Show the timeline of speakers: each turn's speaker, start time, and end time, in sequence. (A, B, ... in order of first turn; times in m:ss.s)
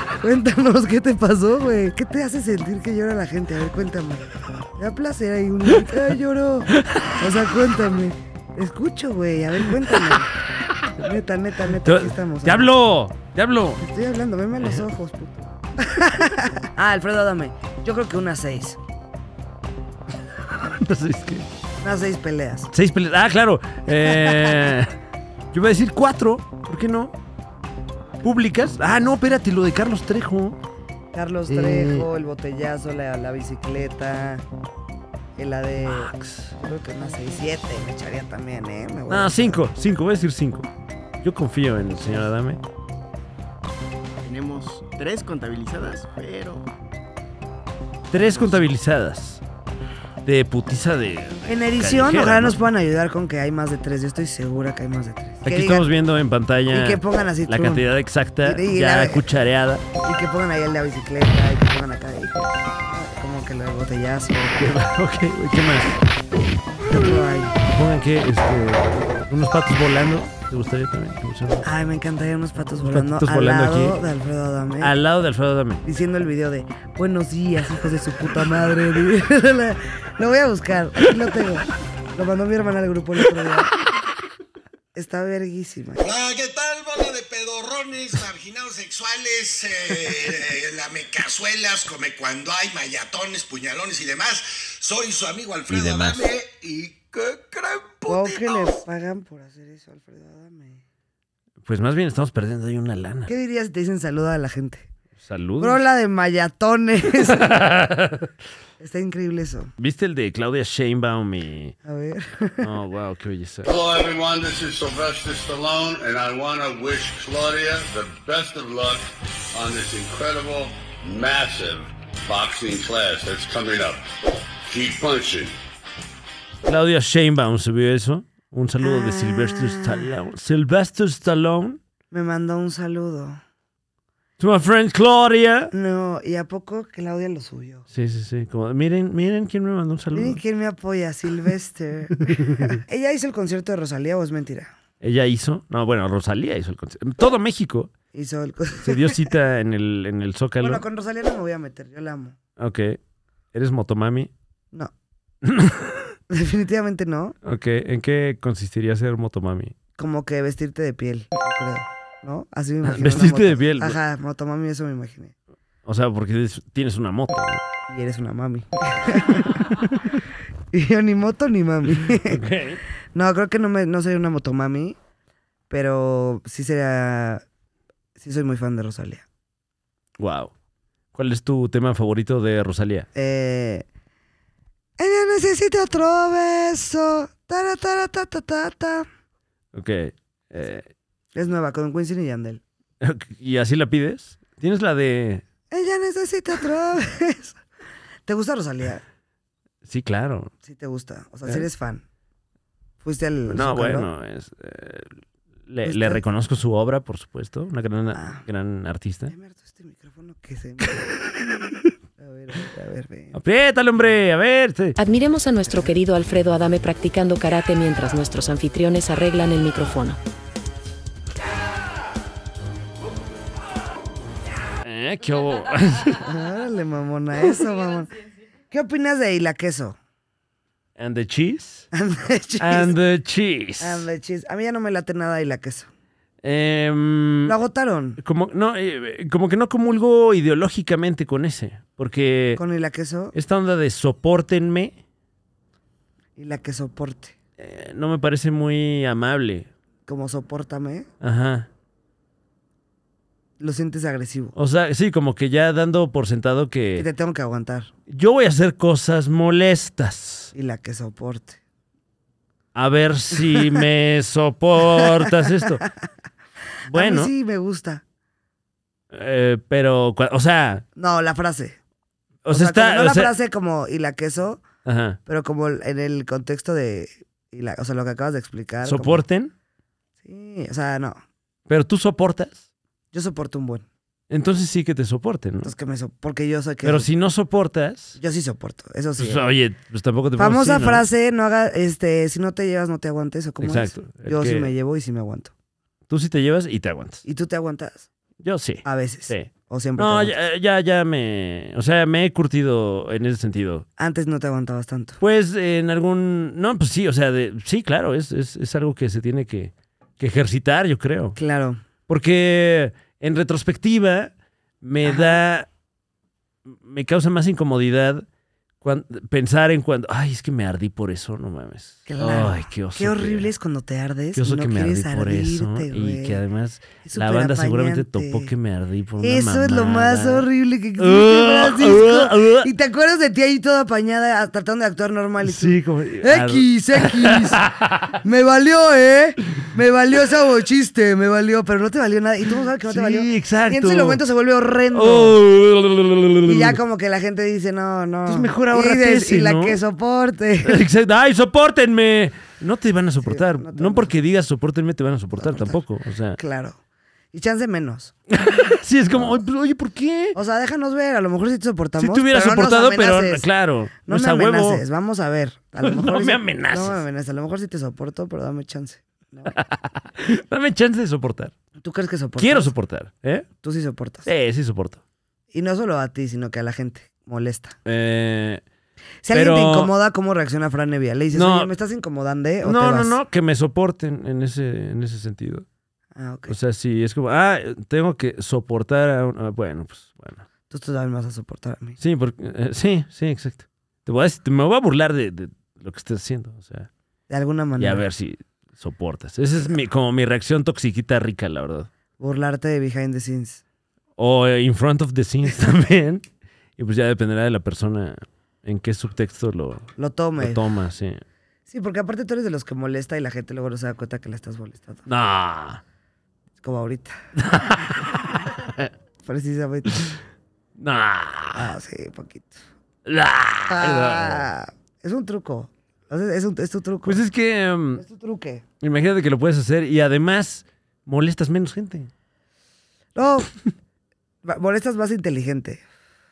0:00.2-0:10.3 A
0:05.7-0:06.0 B
0:06.7-0:07.2 B
0:11.0-0:12.7 A
0:11.7-0:13.8 B
0:13.8-0:18.8 A
0:14.6-0:14.9 B
0:20.5-0:21.5 B
0:21.8-0:22.7 A
0:22.7-0:25.0 B
0:24.2-0:24.7 A
0:25.5-0:27.1 B
0:28.2-0:30.6 B
0:31.1-0:34.4 A
0:31.5-0:32.1 B
0:35.4-0:39.6 A
0:35.8-0:36.5 B
0:39.1-0:40.7 B
0:41.2-0:42.6 B
0:44.2-0:46.6 C
0:48.1-0:49.4 B
0:50.2-0:52.6 B
0:51.4-0:55.9 A
0:55.4-0:59.9 B
0:56.7-0:57.9 A
0:58.4-0:59.2 A
1:00.0-1:04.7 A
1:04.6-1:06.0 B
1:06.8-1:07.6 A
1:07.6-1:11.6 B
1:11.6-1:14.9 A
1:12.8-1:14.0 B
1:14.8-1:15.8 B
1:15.8-1:23.7 A
1:24.9-1:26.0 A
1:26.0-1:38.6 D
1:35.7-1:36.3 B
1:38.0-1:40.8 A
1:41.6-1:43.3 B
1:43.3-1:44.9 A
1:45.2-1:45.8 B
1:45.6-1:47.5 A
1:47.3-1:48.3 B
1:48.8-1:49.7 A
1:49.8-1:51.8 B
1:51.8-1:52.7 A
1:52.6-1:53.7 B
1:53.6-2:04.0 E
2:04.7-2:05.5 E
2:06.6-2:11.8 B
2:08.8-2:10.1 A
2:12.1-2:13.4 A
2:14.4-2:15.7 B
2:15.7-2:17.9 A
2:17.9-2:20.4 B
2:20.1-2:24.7 A
2:22.3-2:22.7 B
2:25.0-2:27.9 B
2:28.1-2:29.3 A
2:28.8-2:30.8 B
2:30.6-2:32.4 A
2:32.6-2:33.0 B
2:33.5-2:34.3 B
2:35.4-2:36.1 B
2:36.3-2:37.4 A
2:37.4-2:39.7 B
2:40.0-2:45.3 A
2:42.8-2:44.0 B
2:45.8-2:47.6 B
2:47.9-2:49.5 A
2:49.7-2:50.0 B
2:50.7-2:52.4 A
2:52.2-2:52.8 B
2:53.1-2:55.0 A
2:55.7-2:57.4 A
2:58.2-2:59.2 A
3:00.2-3:00.5 B
3:01.1-3:03.1 B
3:03.1-3:03.8 A
3:05.0-3:09.1 A
3:09.7-3:10.8 B
3:11.3-3:12.6 A
3:13.0-3:15.4 B
3:15.7-3:17.6 A
3:18.2-3:19.0 A
3:19.8-3:20.5 B
3:20.6-3:22.0 A
3:23.0-3:24.1 A
3:23.5-3:29.3 B
3:25.8-3:26.2 A
3:28.1-3:28.4 A
3:29.3-3:31.1 A
3:32.2-3:33.4 A
3:33.3-3:35.0 B
3:35.0-3:40.2 F
3:35.6-3:36.0 A
3:44.8-3:46.2 B
3:46.2-3:48.2 A
3:48.7-3:50.0 A
3:51.0-3:51.9 B
3:51.9-3:52.9 A
3:52.6-3:54.1 B
3:53.8-3:55.9 A
3:56.4-3:57.5 B
3:57.4-3:58.2 A
3:58.2-4:02.6 B
4:02.6-4:03.3 A
4:03.3-4:05.0 B
4:06.4-4:07.3 A
4:07.6-4:09.7 B
4:10.0-4:11.1 A
4:11.2-4:11.7 B
4:13.6-4:14.5 A
4:14.5-4:17.1 B
4:17.0-4:17.9 A
4:18.1-4:20.5 B
4:20.5-4:21.6 A
4:22.7-4:25.8 B
4:25.0-4:25.6 A
4:26.9-4:27.3 B
4:26.9-4:28.0 A
4:29.1-4:30.8 B
4:31.0-4:31.8 A
4:32.4-4:33.3 B
4:32.5-4:34.6 A
4:34.8-4:35.2 B
4:35.2-4:39.2 A
4:38.8-4:39.5 B
4:40.2-4:41.2 A
4:41.7-4:42.6 B
4:43.1-4:43.8 A
4:44.3-4:45.7 B
4:45.6-4:47.1 A
4:46.8-4:48.2 B
4:48.2-4:49.4 A
4:49.2-4:51.0 B
4:50.4-4:55.5 A
4:53.6-4:54.7 B
4:56.1-4:57.2 B
4:57.2-4:58.1 A
4:58.4-5:03.8 B
4:58.8-5:00.4 A
5:04.0-5:05.2 A
5:05.2-5:11.4 B
5:11.3-5:11.8 A
5:12.1-5:15.7 B
5:15.0-5:15.4 A
5:16.7-5:18.2 B
5:18.8-5:23.5 B
5:22.0-5:26.4 A
5:24.3-5:30.5 B
5:27.0-5:28.5 A
5:29.2-5:37.6 A
5:31.0-5:32.7 B
5:35.4-5:38.2 B
5:38.2-5:45.4 A
5:42.8-5:44.2 B
5:44.9-5:46.8 B
5:46.4-5:50.8 A
5:48.2-5:49.8 B
5:50.6-5:56.4 B
5:53.2-5:54.1 A
5:55.4-5:55.8 A
5:56.4-5:56.8 A
5:57.3-5:58.1 A
5:58.3-6:00.4 B
6:00.3-6:03.5 A
6:02.0-6:04.8 B
6:04.0-6:09.6 A
6:05.8-6:07.0 B
6:09.5-6:11.5 B
6:11.8-6:12.7 A
6:12.4-6:13.5 B
6:13.6-6:14.3 A
6:14.2-6:15.0 B
6:15.5-6:17.8 A
6:17.8-6:18.6 B
6:19.2-6:23.2 A
6:19.3-6:19.9 B
6:21.3-6:21.7 B
6:22.6-6:25.6 B
6:26.1-6:26.5 A
6:26.5-6:30.4 B
6:30.7-6:32.0 A
6:32.0-6:36.9 B
6:37.3-6:38.0 A
6:37.8-6:41.9 B
6:42.2-6:43.6 A
6:44.2-6:46.2 B
6:46.8-6:51.2 B
6:50.0-6:50.7 A
6:51.7-6:55.1 A
6:55.1-6:55.8 B
6:56.6-6:57.1 A
6:57.4-6:58.9 B
6:59.2-7:00.2 A
7:00.8-7:01.7 B
7:01.5-7:02.6 A
7:03.0-7:04.5 B
7:03.7-7:07.2 A
7:07.0-7:08.0 B
7:08.0-7:08.6 A
7:08.8-7:12.1 B
7:13.1-7:13.5 A
7:14.4-7:15.8 A